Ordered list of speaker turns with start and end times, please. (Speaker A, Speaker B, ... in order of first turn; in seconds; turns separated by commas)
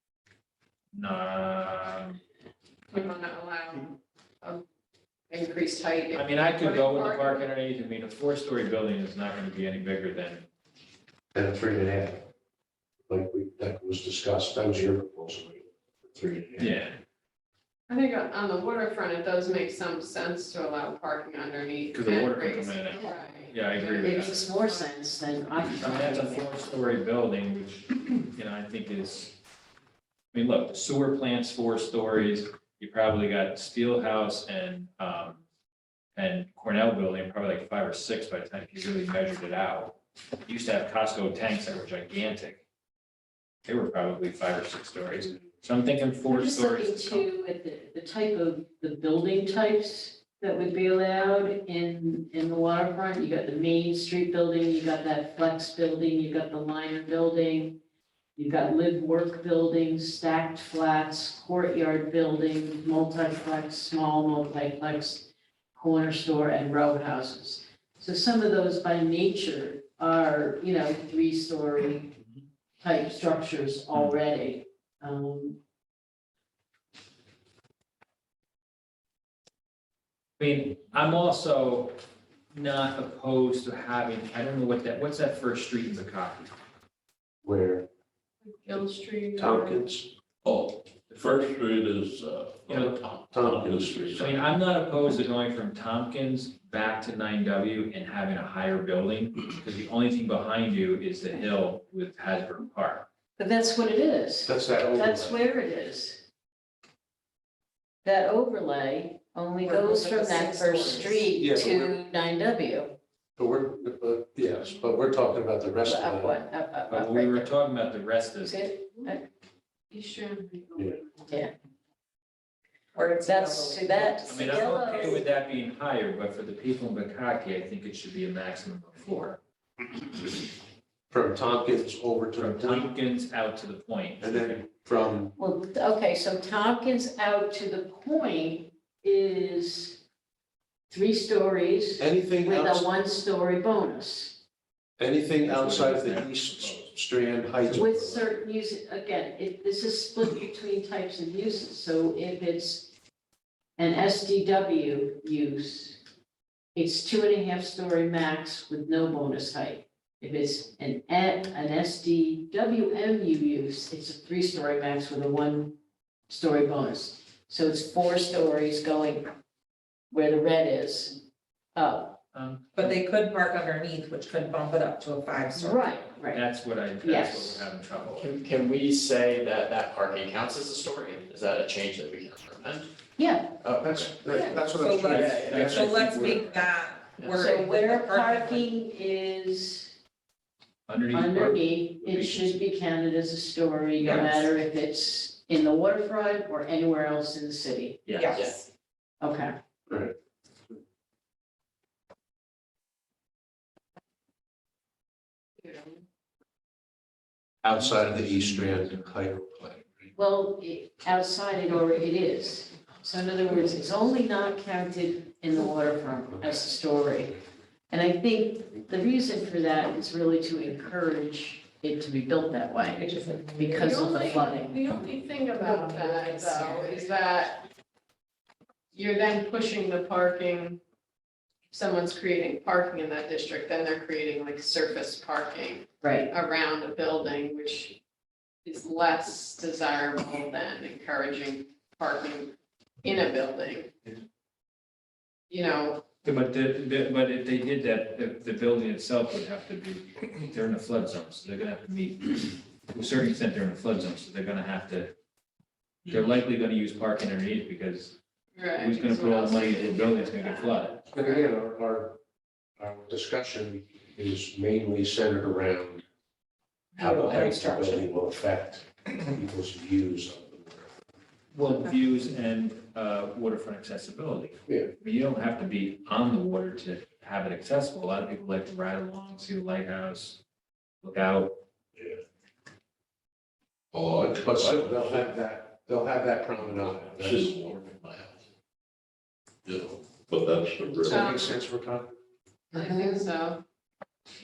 Speaker A: 0.9-2.2, Speaker B: 2.9-4.6, Speaker B: 5.3-7.4, Speaker A: 6.1-10.5, Speaker C: 11.3-12.2, Speaker C: 13.1-16.8, Speaker A: 16.6-16.9, Speaker B: 17.9-24.9, Speaker A: 21.9-24.4, Speaker D: 24.0-26.5, Speaker A: 25.8-29.4, Speaker A: 30.3-35.4, Speaker A: 36.2-40.0, Speaker A: 40.5-42.6, Speaker A: 43.7-47.2, Speaker D: 46.3-57.8, Speaker D: 58.4-72.1, Speaker D: 72.8-75.6, Speaker A: 80.4-82.0, Speaker A: 82.5-86.5, Speaker C: 87.4-87.9, Speaker B: 88.5-89.8, Speaker C: 89.4-90.1, Speaker E: 90.4-94.4, Speaker A: 92.7-93.0, Speaker C: 92.7-94.4, Speaker A: 94.2-103.1, Speaker D: 103.4-106.2, Speaker C: 104.5-105.4, Speaker D: 108.0-113.0, Speaker F: 109.6-111.3, Speaker C: 111.4-112.0, Speaker C: 113.4-116.4, Speaker D: 115.8-117.5, Speaker A: 116.9-118.6, Speaker D: 118.4-119.3, Speaker B: 119.9-120.9, Speaker D: 121.3-121.5, Speaker F: 123.0-125.2, Speaker D: 123.2-125.2, Speaker A: 124.3-129.4, Speaker C: 131.1-132.9, Speaker A: 132.4-134.6, Speaker C: 134.2-135.3, Speaker D: 135.4-140.0, Speaker D: 140.9-144.4, Speaker C: 142.0-142.9, Speaker C: 145.0-148.3, Speaker A: 145.4-146.9, Speaker D: 147.7-152.9, Speaker D: 153.8-156.0, Speaker D: 156.8-165.7, Speaker D: 166.3-169.3, Speaker D: 170.1-171.2, Speaker D: 171.8-172.2, Speaker A: 172.3-172.7, Speaker F: 172.7-175.8, Speaker D: 175.6-176.4, Speaker A: 176.3-178.3, Speaker D: 177.0-177.7, Speaker G: 178.1-182.9, Speaker D: 183.2-183.6, Speaker C: 183.6-186.4, Speaker F: 184.3-188.7, Speaker A: 185.0-186.8, Speaker G: 185.3-185.8, Speaker D: 187.4-189.9, Speaker A: 190.9-192.6, Speaker D: 191.1-198.0, Speaker F: 194.0-194.5, Speaker A: 198.1-198.4, Speaker F: 198.2-198.6, Speaker D: 199.2-199.5, Speaker C: 199.9-200.1, Speaker B: 205.6-206.0, Speaker C: 207.6-210.1, Speaker A: 207.8-208.9, Speaker D: 210.2-217.4, Speaker D: 217.9-224.8, Speaker F: 222.9-223.8, Speaker B: 223.7-227.7, Speaker F: 225.6-227.1, Speaker B: 228.9-230.8, Speaker B: 231.7-238.0, Speaker D: 236.0-236.3, Speaker B: 238.7-243.9, Speaker B: 245.5-246.0, Speaker A: 246.2-255.1, Speaker A: 256.1-258.2, Speaker B: 258.6-261.4, Speaker A: 258.8-261.0, Speaker C: 261.1-262.2, Speaker C: 262.8-266.0, Speaker C: 267.0-270.9, Speaker F: 267.0-268.0, Speaker A: 271.5-280.4, Speaker A: 281.0-281.6, Speaker E: 283.9-285.3, Speaker C: 284.2-287.6, Speaker E: 286.6-288.4, Speaker E: 289.7-291.3, Speaker C: 291.0-292.1, Speaker B: 291.1-291.6, Speaker B: 292.7-293.6